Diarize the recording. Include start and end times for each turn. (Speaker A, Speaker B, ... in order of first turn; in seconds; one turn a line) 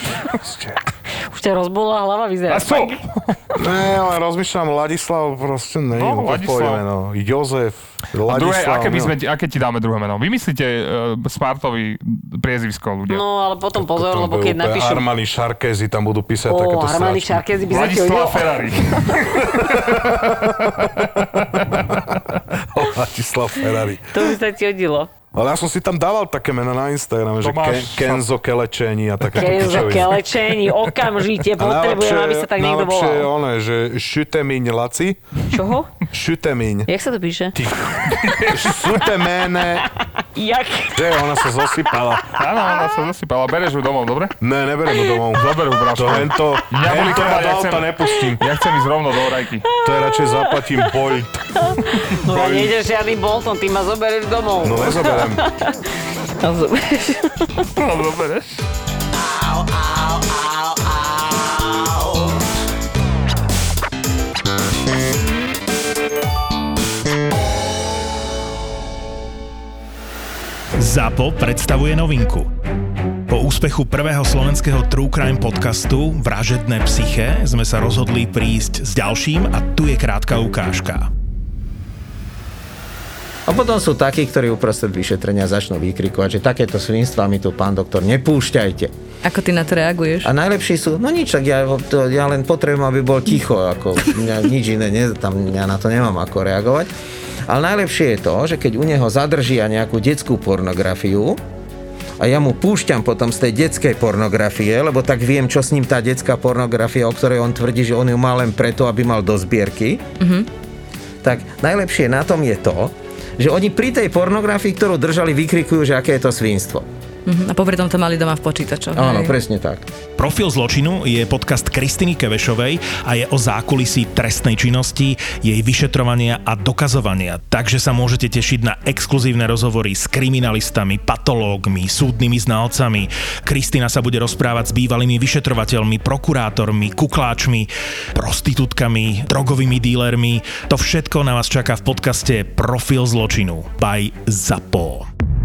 Speaker A: 0.3-0.8
Speaker B: 1.1-3.6
Speaker C: 2.5-3.0
Speaker A: 3.5-9.1
Speaker C: 5.9-6.8
Speaker C: 8.3-13.2
Speaker B: 13.1-15.0
Speaker A: 13.7-17.4
Speaker B: 16.5-18.5
Speaker C: 17.7-22.1
Speaker A: 19.6-24.3
Speaker B: 24.1-25.1
Speaker A: 25.3-30.3
Speaker C: 27.4-28.2
Speaker B: 29.3-33.3
Speaker A: 31.6-35.2
Speaker B: 35.5-35.9
Speaker A: 36.1-36.9
Speaker B: 36.9-37.5
Speaker A: 37.5-39.9
Speaker C: 38.0-38.8
Speaker B: 39.8-41.9
Speaker A: 40.9-42.3
Speaker C: 42.3-44.3
Speaker A: 44.4-48.4
Speaker C: 45.3-49.7
Speaker B: 49.7-50.9
Speaker A: 49.8-51.5
Speaker B: 51.6-57.6
Speaker C: 52.1-52.7
Speaker A: 54.6-55.4
Speaker C: 57.8-58.6
Speaker D: 70.8-72.5
Speaker D: 73.3-81.1
Speaker E: 83.5-88.9
Speaker F: 89.2-90.3
Speaker E: 90.2-96.9
Speaker E: 97.5-101.4
Speaker E: 102.2-110.0
Speaker F: 110.2-110.5
Speaker E: 111.2-116.8
Speaker F: 117.2-119.4
Speaker E: 118.9-119.8
Speaker D: 120.2-145.1